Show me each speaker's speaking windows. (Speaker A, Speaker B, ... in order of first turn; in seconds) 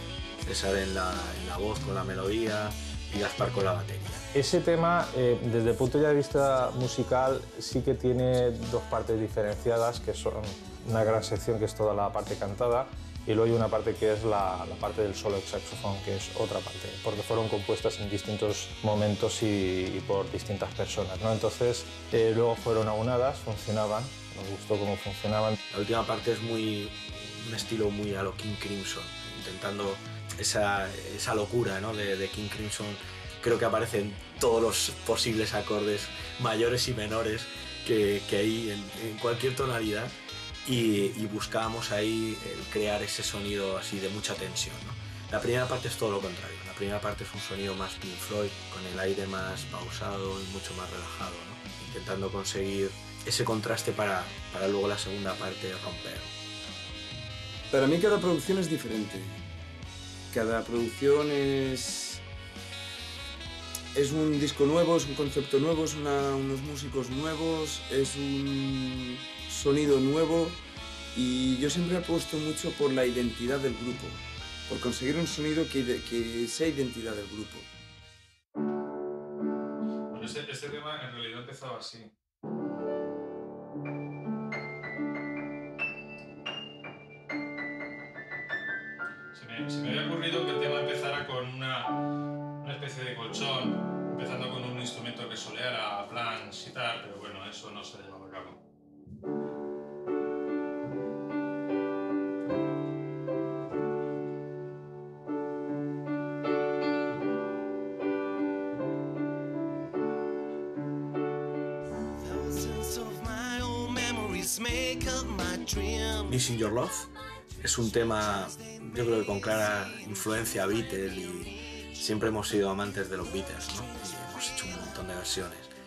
Speaker A: 0.4-4.2, 25.7-40.1, 40.6-56.3, 116.3-125.7
Speaker B: 4.3-25.6, 80.1-82.1, 89.3-92.0, 92.6-98.6
Speaker C: 57.7-59.4, 60.3-62.2, 63.9-70.6, 71.1-77.7
Speaker D: 112.2-116.3